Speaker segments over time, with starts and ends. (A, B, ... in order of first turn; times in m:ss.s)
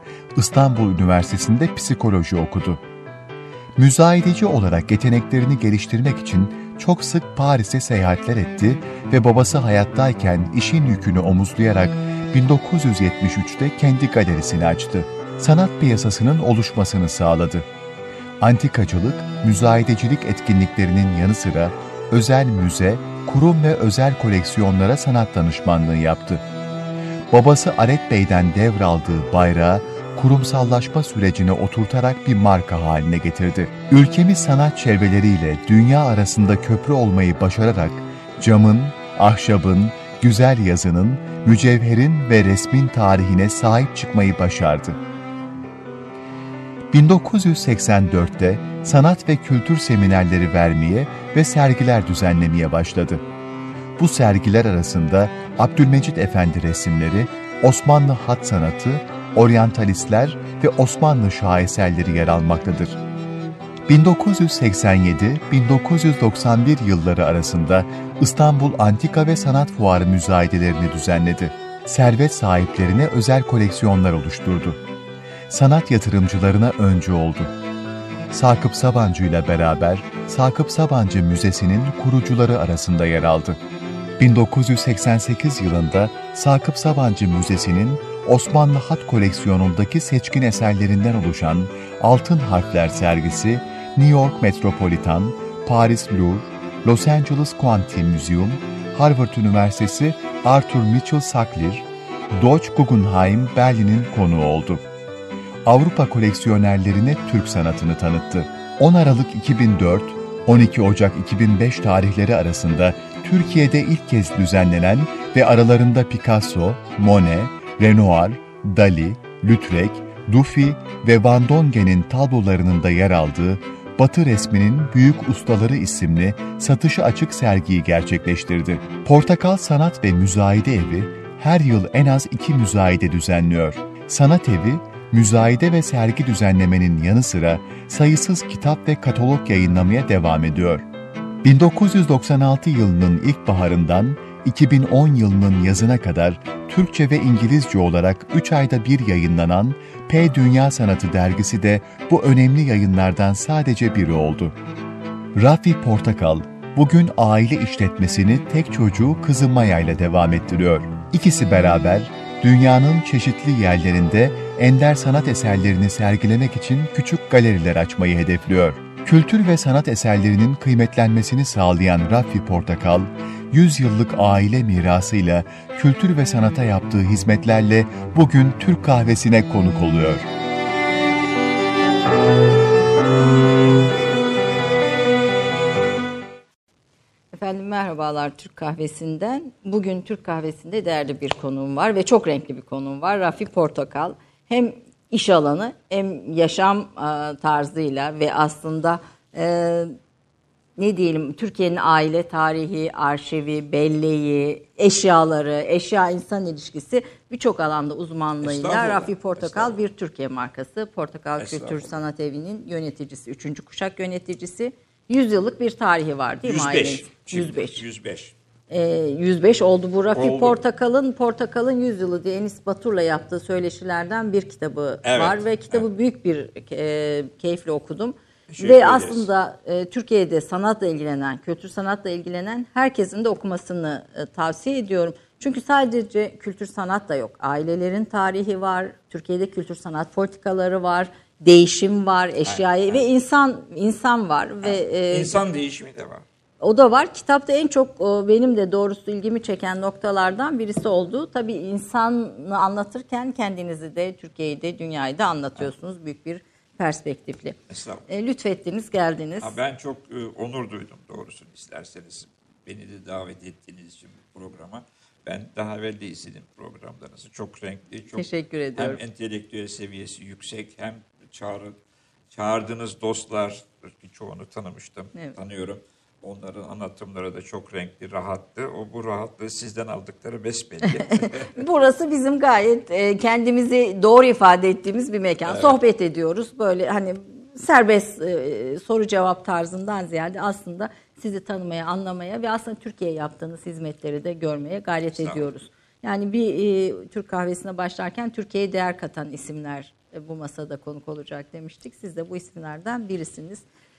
0:00.4-0:02.8 A
0:03.8-0:17.7 A
0:18.4-0:26.4 A
0:27.3-0:45.0 A
0:46.9-0:53.2 A
0:54.0-1:03.0 A
1:03.9-1:14.8 A
1:15.5-1:17.5 A
1:18.3-1:23.6 A
1:24.2-1:44.9 A
1:45.6-2:20.9 A
2:21.4-2:34.6 A
2:35.4-3:00.3 A
3:07.3-3:20.0 B
3:20.8-3:37.8 B
3:28.4-3:29.8 C
3:31.4-3:32.0 C
3:36.4-3:38.4 C
3:38.7-4:05.4 B
3:40.2-3:40.6 C
3:45.0-3:45.9 C
3:48.5-3:49.3 C
4:02.4-4:03.0 C
4:04.6-4:06.2 C
4:06.6-4:17.6 B
4:17.7-4:18.1 C
4:18.1-4:19.6 B
4:19.4-4:31.8 C
4:28.1-4:29.0 B
4:32.3-4:41.6 C
4:41.2-5:03.6 B
4:45.5-4:45.8 C
4:55.1-4:55.4 C